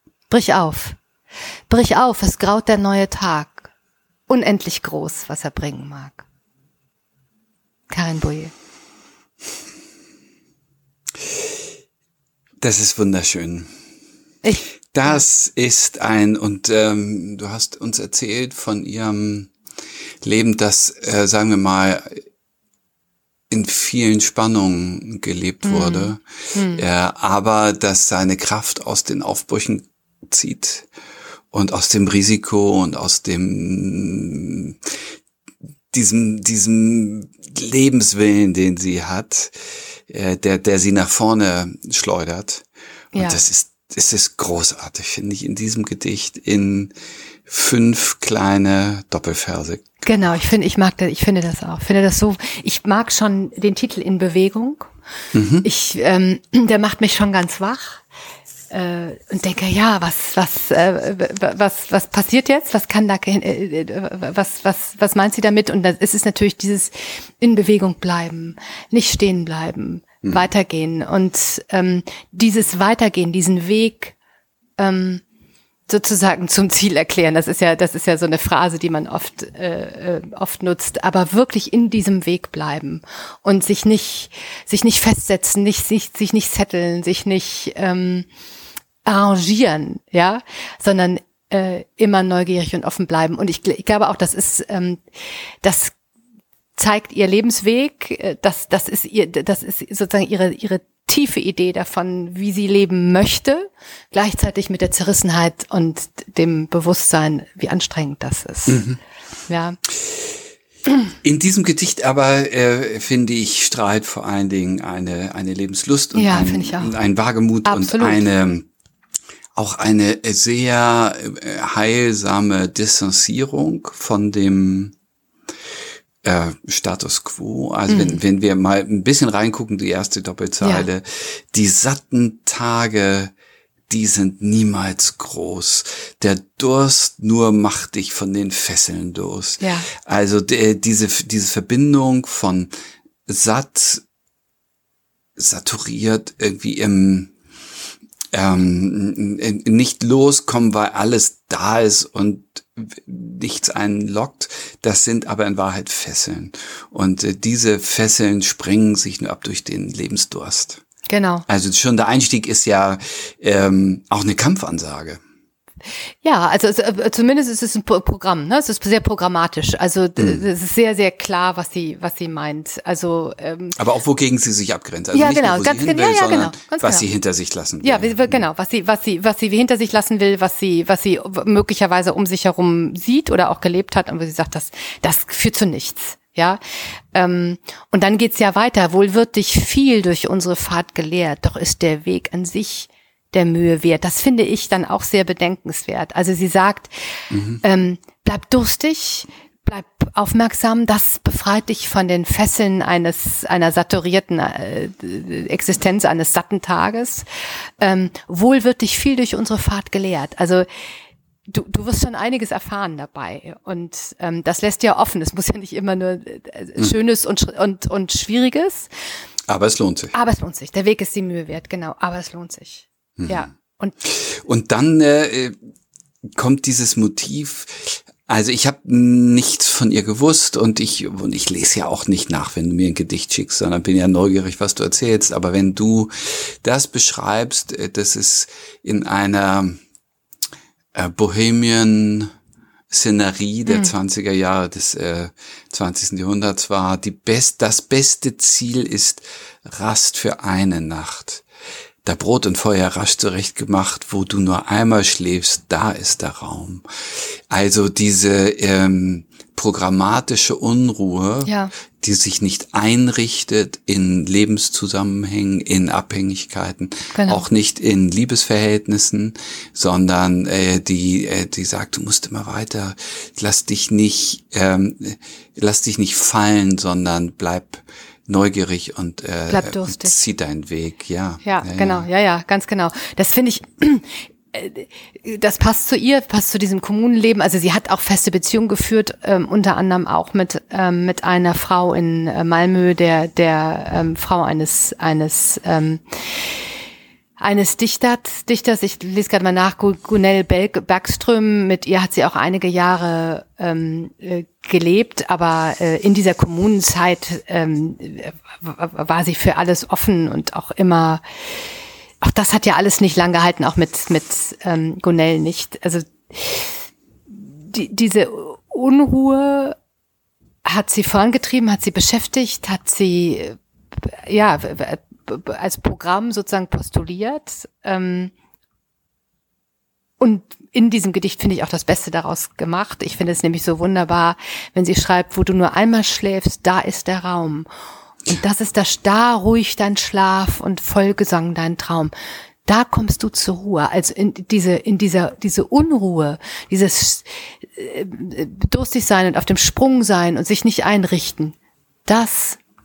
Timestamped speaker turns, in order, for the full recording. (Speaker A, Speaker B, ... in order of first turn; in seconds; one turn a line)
Speaker A: 0.3-1.0
Speaker A: 1.7-3.7
Speaker A: 4.3-6.2
Speaker A: 7.9-8.5
Speaker B: 12.6-13.7
Speaker A: 14.4-15.2
Speaker B: 14.9-19.5
Speaker B: 20.2-22.2
Speaker B: 23.5-30.9
Speaker A: 25.6-26.8
Speaker B: 31.5-34.9
Speaker B: 35.9-39.6
Speaker B: 40.1-46.9
Speaker A: 43.1-43.4
Speaker B: 47.5-50.0
Speaker A: 50.0-54.9
Speaker B: 55.3-55.6
Speaker A: 55.6-58.0
Speaker A: 58.7-74.1
Speaker A: 74.8-75.2
Speaker A: 75.9-88.3
Speaker A: 89.0-95.0
Speaker A: 95.6-95.9
Speaker A: 96.8-108.8
Speaker B: 108.7-109.0
Speaker A: 109.5-109.8
Speaker B: 111.2-118.7
Speaker A: 116.1-116.9
Speaker A: 117.7-118.2
Speaker B: 119.5-124.9
Speaker B: 126.2-133.3
Speaker A: 127.9-128.2
Speaker A: 130.6-130.9
Speaker B: 133.9-142.7
Speaker A: 139.6-139.9
Speaker B: 143.3-144.0
Speaker B: 145.4-147.3
Speaker B: 148.3-160.8
Speaker A: 161.1-161.4
Speaker B: 161.5-165.2
Speaker A: 166.2-173.8
Speaker B: 170.2-170.4
Speaker B: 173.8-178.4
Speaker A: 175.1-177.1
Speaker A: 177.8-186.6
Speaker A: 187.1-196.9
Speaker B: 197.3-197.6
Speaker A: 197.6-207.2
Speaker A: 207.8-210.7
Speaker A: 211.5-218.9
Speaker B: 219.5-220.1
Speaker A: 220.1-223.9
Speaker B: 223.2-223.5
Speaker B: 224.0-225.6
Speaker B: 226.3-239.8
Speaker B: 240.9-242.3
Speaker B: 242.9-251.4
Speaker B: 252.0-282.1
Speaker A: 261.4-261.7
Speaker A: 267.1-267.4
Speaker A: 279.5-280.1
Speaker A: 281.4-296.6
Speaker A: 297.4-311.2
Speaker A: 312.2-316.7
Speaker A: 317.3-319.8
Speaker A: 320.6-328.3
Speaker A: 330.2-337.7
Speaker A: 338.3-342.1
Speaker A: 342.6-351.6
Speaker A: 352.1-352.6